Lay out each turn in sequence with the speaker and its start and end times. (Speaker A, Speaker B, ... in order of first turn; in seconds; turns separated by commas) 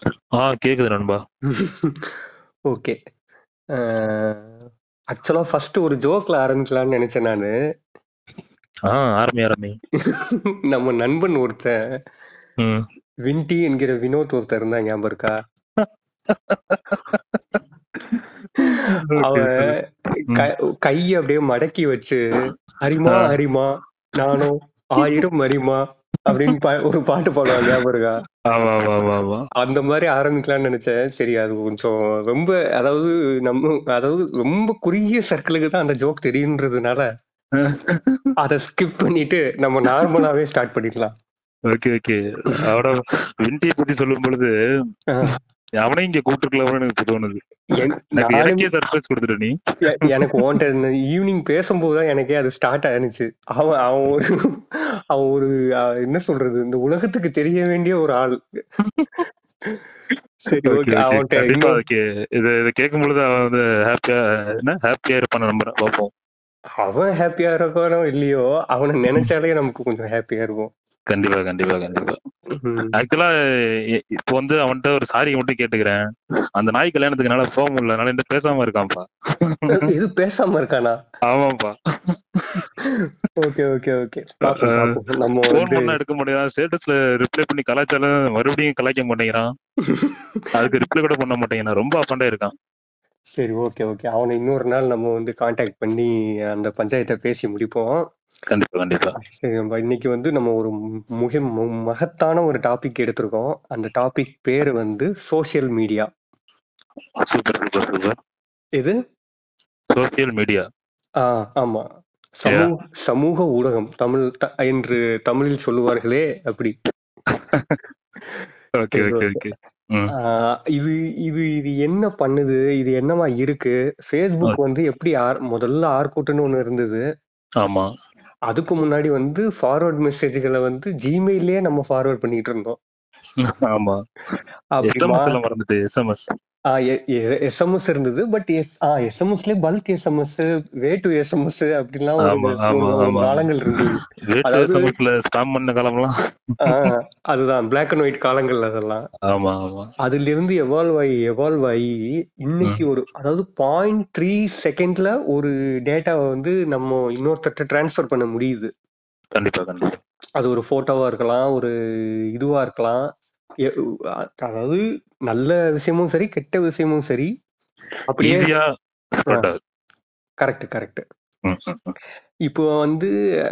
Speaker A: 0.4-1.2, Speaker B: 1.5-2.1, Speaker B: 2.7-3.0, Speaker B: 3.7-4.6, Speaker B: 5.1-7.5, Speaker A: 8.9-9.8, Speaker B: 10.1-11.8, Speaker B: 13.2-15.3, Speaker A: 15.8-19.7, Speaker B: 18.6-22.2, Speaker B: 22.8-28.2, Speaker A: 28.5-29.4, Speaker B: 29.6-37.1, Speaker A: 37.6-38.2, Speaker B: 38.4-41.1, Speaker A: 41.7-44.5, Speaker B: 45.1-45.4, Speaker A: 45.3-47.4, Speaker B: 47.7-48.7, Speaker A: 48.2-50.4, Speaker B: 49.8-55.5, Speaker B: 56.0-58.4, Speaker A: 58.9-59.2, Speaker B: 60.5-61.8, Speaker A: 60.6-66.1, Speaker B: 66.8-70.7, Speaker A: 71.1-72.2, Speaker B: 72.6-73.0, Speaker A: 72.9-73.3, Speaker A: 74.2-76.0, Speaker A: 76.6-79.8, Speaker B: 79.7-81.0, Speaker A: 81.3-82.7, Speaker B: 82.9-85.9, Speaker A: 84.5-85.0, Speaker A: 85.5-89.5, Speaker B: 89.9-90.4, Speaker A: 90.5-92.5, Speaker B: 93.4-98.1, Speaker A: 98.5-99.1, Speaker B: 99.2-106.1, Speaker A: 107.2-108.2, Speaker A: 109.9-110.6, Speaker B: 111.2-111.8, Speaker B: 112.4-116.8, Speaker A: 117.3-117.8, Speaker A: 118.8-120.1, Speaker B: 118.9-119.4, Speaker B: 120.1-127.0, Speaker B: 128.5-132.8, Speaker A: 133.4-134.0, Speaker B: 134.8-135.4, Speaker A: 134.8-136.3, Speaker B: 136.7-144.9, Speaker A: 142.2-146.9, Speaker B: 146.6-149.1, Speaker A: 149.3-149.9, Speaker B: 150.0-151.9, Speaker B: 152.4-158.7, Speaker A: 159.3-160.0, Speaker B: 160.4-161.7, Speaker B: 162.3-163.0, Speaker B: 163.7-167.3, Speaker B: 168.1-168.5, Speaker A: 168.2-168.6, Speaker A: 169.2-169.6, Speaker B: 170.4-171.0, Speaker A: 171.4-171.9, Speaker B: 172.5-173.1